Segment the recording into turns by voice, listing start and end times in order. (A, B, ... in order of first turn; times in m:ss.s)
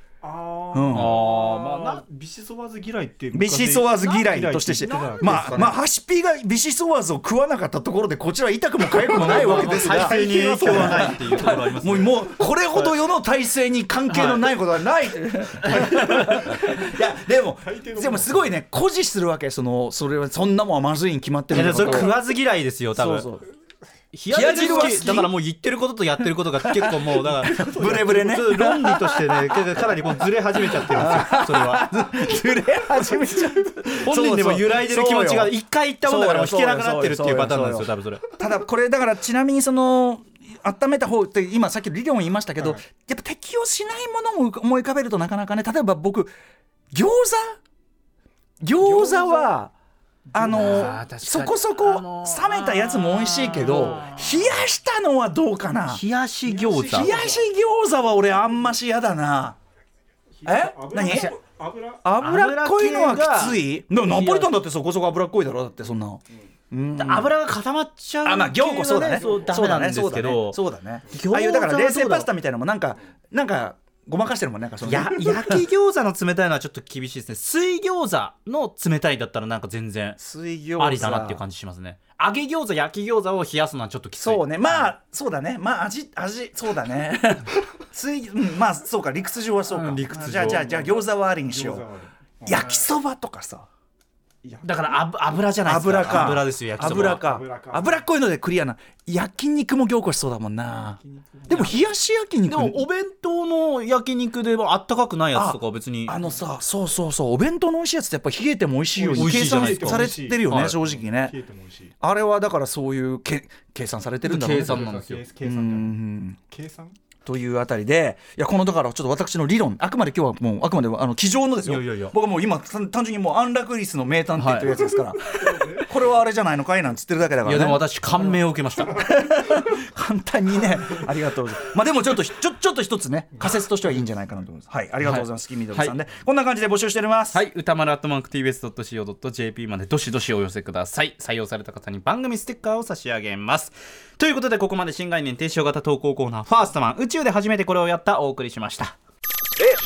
0:00.2-0:05.8 A
0:00.7-0:01.2 B
0:00.9-0:02.0 C
0:03.3-0:22.2 B
0:04.8-0:05.4 C
0:09.0-0:11.5 A
0:09.1-0:12.2 C
0:14.1-0:14.6 C
0:15.6-0:16.6 C
0:17.6-0:18.5 A
0:21.5-0:23.3 C
0:23.0-0:23.5 B
0:24.1-0:31.9 C
0:24.3-0:25.3 B
0:26.6-0:29.9 B
0:27.5-0:28.3 A
0:30.6-0:46.3 B
0:33.9-0:38.3 C
0:46.9-0:47.6 B
0:48.6-0:49.7 B
0:48.8-0:49.6 A
0:50.3-0:56.0 B
0:50.4-0:51.0 A
0:50.4-0:54.6 C
0:55.9-0:57.2 C
0:56.5-0:57.5 A
0:56.9-0:59.6 B
1:00.4-1:02.1 A
1:00.4-1:01.4 B
1:02.0-1:07.3 B
1:02.2-1:04.5 C
1:07.0-1:12.3 C
1:08.2-1:15.6 B
1:09.1-1:09.5 A
1:14.8-1:20.2 C
1:20.2-1:21.4 B
1:20.8-1:24.9 C
1:24.2-1:31.9 B
1:29.7-1:30.9 C
1:30.5-1:32.8 A
1:32.4-1:33.7 B
1:34.4-1:34.8 A
1:34.6-1:37.3 C
1:35.6-1:42.9 B
1:37.1-1:38.0 A
1:41.0-1:41.7 A
1:41.5-1:41.8 C
1:42.5-1:46.2 C
1:45.3-1:51.4 B
1:49.0-1:51.9 A
1:49.1-1:50.8 C
1:52.0-1:54.9 B
1:54.2-1:55.2 C
1:54.6-1:55.9 A
1:55.4-1:56.4 B
1:56.5-1:57.0 A
1:57.3-2:07.9 B
2:01.6-2:02.2 C
2:04.4-2:04.7 C
2:05.3-2:06.0 A
2:07.4-2:09.1 C
2:08.9-2:17.4 B
2:15.0-2:16.0 C
2:17.3-2:29.0 C